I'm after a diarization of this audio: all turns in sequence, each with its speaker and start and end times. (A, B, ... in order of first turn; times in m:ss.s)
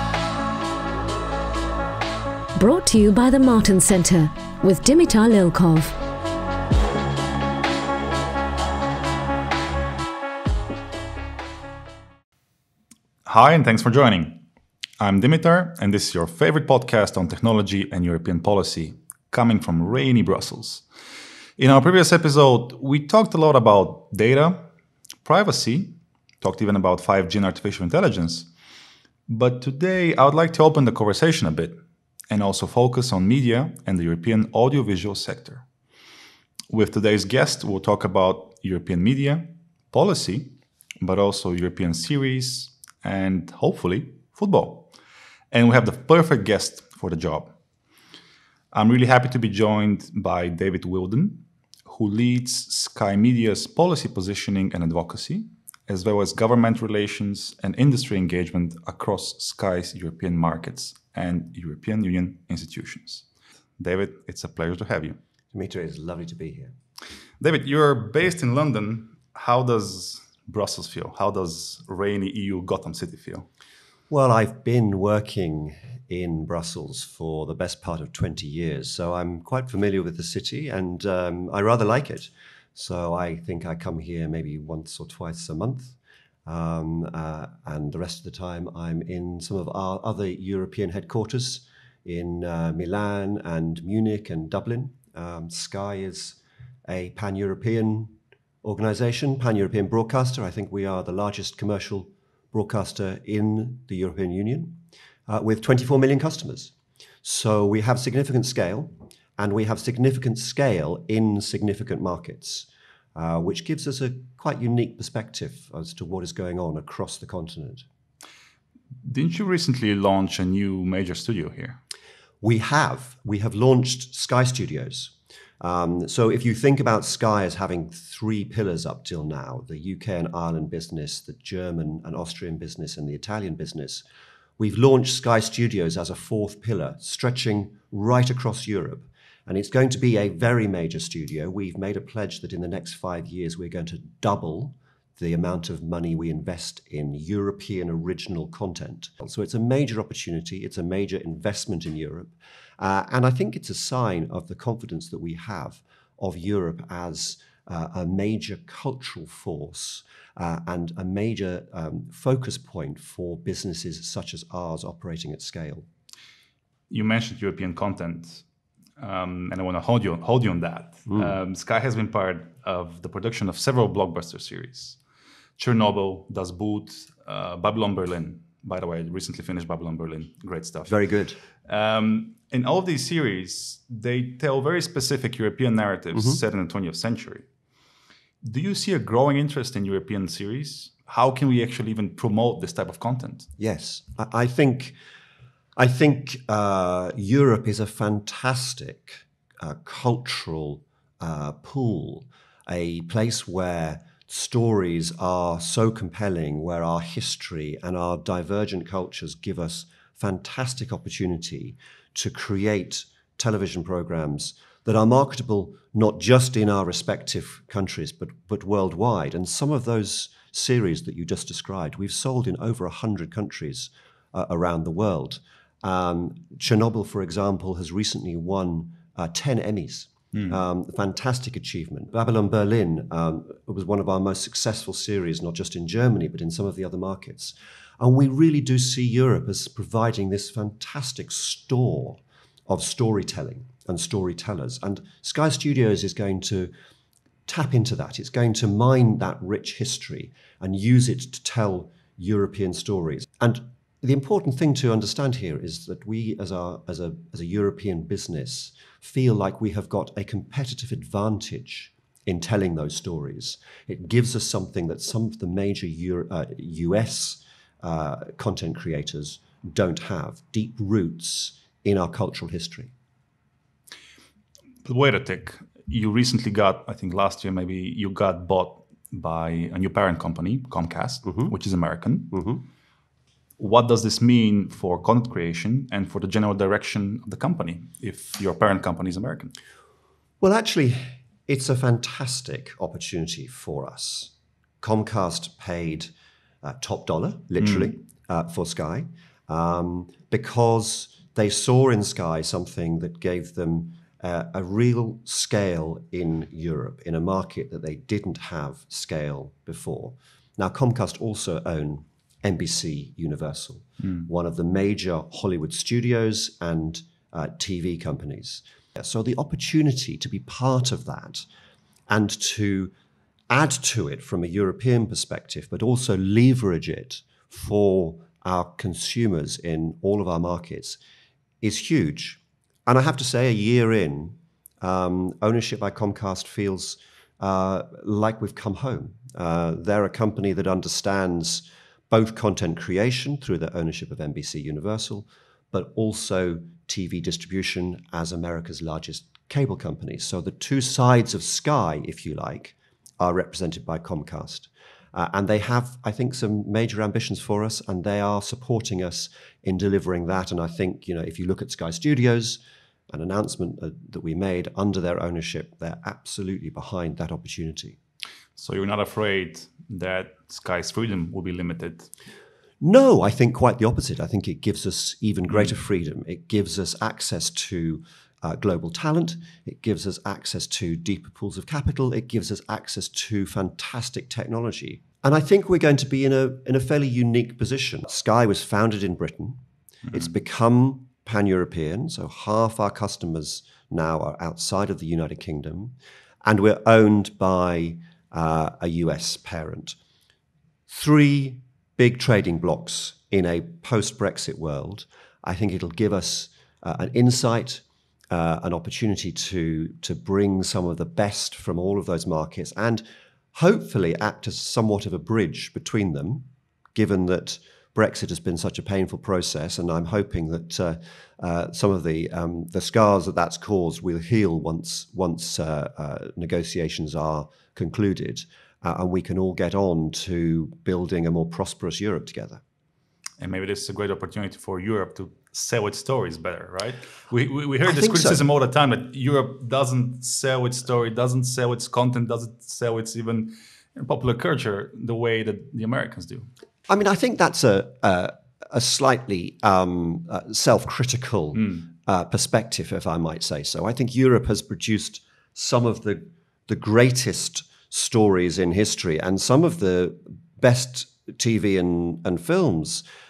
0:02.6-0:06.0 A
0:13.3-0:14.4 B
0:15.0-0:20.8 B
0:21.6-0:24.7 B
0:25.2-0:28.5 B
0:29.3-0:35.6 B
0:36.7-0:44.9 B
0:45.5-0:47.6 B
0:48.7-1:03.3 B
1:03.8-1:05.2 B
1:05.5-1:06.7 C
1:07.4-1:13.5 B
1:14.1-1:57.8 C
1:59.0-2:01.8 B
2:02.4-2:14.0 C
2:14.6-2:45.9 C
2:46.9-2:48.4 B
2:49.0-2:55.0 B
2:55.6-3:00.9 B
3:00.9-3:01.4 C
3:01.6-3:07.4 B
3:06.1-3:06.4 C
3:08.4-3:13.5 B
3:13.6-3:15.0 C
3:15.8-4:06.7 C
4:07.5-4:32.9 C
4:34.8-4:42.4 B
4:42.3-4:42.6 C
4:43.6-4:49.5 B
4:50.4-4:56.1 C
4:56.6-5:21.4 C
5:22.1-5:22.9 C
5:23.5-5:31.0 C
5:31.6-6:08.0 C
6:08.6-6:12.1 B
6:12.8-6:29.6 C
6:30.1-6:40.0 C
6:40.9-7:12.6 C
7:13.4-7:26.5 B
7:17.8-7:18.4 C
7:26.9-7:43.0 C
7:31.6-7:31.9 B